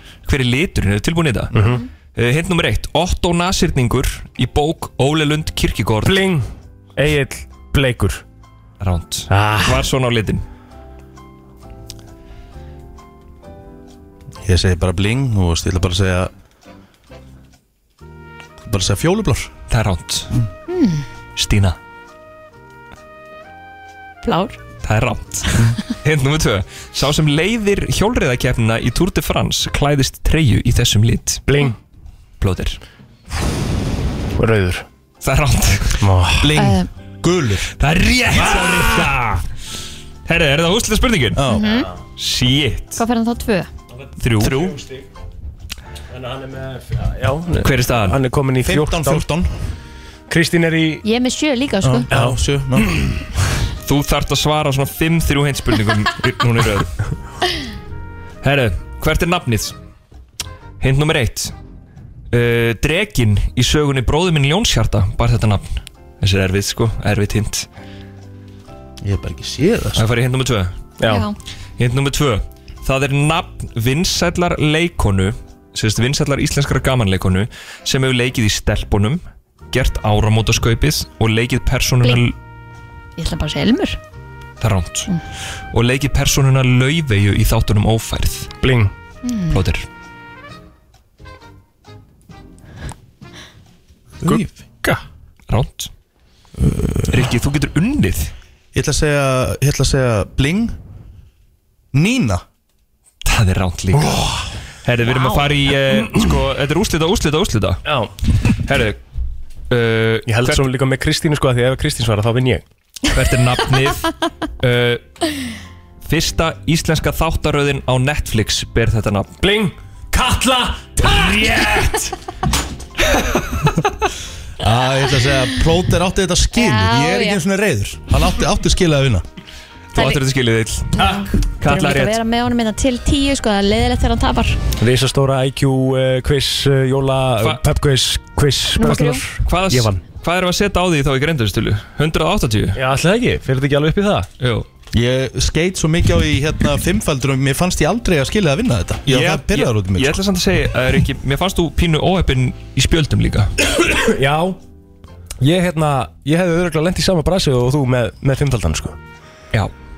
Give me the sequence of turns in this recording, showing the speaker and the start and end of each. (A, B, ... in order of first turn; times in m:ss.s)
0:00.3-0:06.3 A
0:01.5-0:01.8 B
0:06.0-0:08.2 B
0:08.8-0:10.4 A
0:09.3-0:09.9 B
0:14.4-0:16.3 C
0:18.6-0:19.5 C
0:19.7-0:20.3 A
0:20.7-0:21.0 D
0:21.4-0:21.8 A
0:24.2-0:24.6 D
0:24.8-0:31.4 A
0:31.5-0:31.8 B
0:32.4-0:32.8 A
0:34.4-0:34.9 B
0:35.2-0:36.1 A
0:36.0-0:36.5 B
0:36.4-0:37.7 C
0:36.6-0:36.9 D
0:37.8-0:39.4 A
0:38.5-0:39.1 B
0:40.3-0:41.4 A
0:41.3-0:41.7 C
0:41.5-0:41.9 D
0:42.2-0:43.0 A
0:43.0-0:43.7 D
0:44.2-0:44.6 A
0:44.4-0:44.8 C
0:44.4-0:45.0 B
0:46.1-0:49.3 B
0:47.6-0:48.2 A
0:48.6-0:49.5 C
0:50.3-0:51.0 B
0:51.0-0:52.1 D
0:51.8-0:52.9 C
0:52.1-0:53.2 B
0:53.8-0:56.9 A
0:58.4-0:59.8 A
1:00.8-1:01.5 A
1:02.3-1:07.7 A
1:09.0-1:10.0 C
1:10.0-1:10.7 A
1:11.0-1:11.3 B
1:11.0-1:11.4 D
1:11.8-1:22.3 A
1:23.2-1:24.0 D
1:24.6-1:25.1 A
1:25.7-1:28.5 A
1:28.6-1:28.9 B
1:29.2-1:29.6 D
1:29.5-1:29.9 A
1:34.2-1:34.5 C
1:34.2-1:35.0 B
1:35.5-1:35.9 A
1:36.6-1:37.3 C
1:37.1-1:38.3 A
1:38.7-1:40.8 C
1:41.9-1:42.4 C
1:43.2-1:44.2 A
1:43.9-1:44.5 B
1:44.8-1:47.8 A
1:45.8-1:46.3 B
1:47.9-1:48.1 B
1:48.6-1:49.0 A
1:49.7-1:50.7 A
1:50.3-1:52.6 B
1:53.1-1:54.1 A
1:54.6-1:55.0 A
1:56.1-1:59.4 A
1:59.4-2:02.2 B
2:04.6-2:09.2 C
2:06.6-2:07.4 D
2:09.9-2:12.2 A
2:11.0-2:14.6 D
2:14.8-2:20.0 B
2:18.8-2:19.2 D
2:18.8-2:22.8 A
2:22.8-2:24.3 B
2:24.4-2:24.7 A
2:24.9-2:30.2 C
2:29.1-2:33.5 A
2:33.6-2:34.6 B
2:35.4-2:39.0 B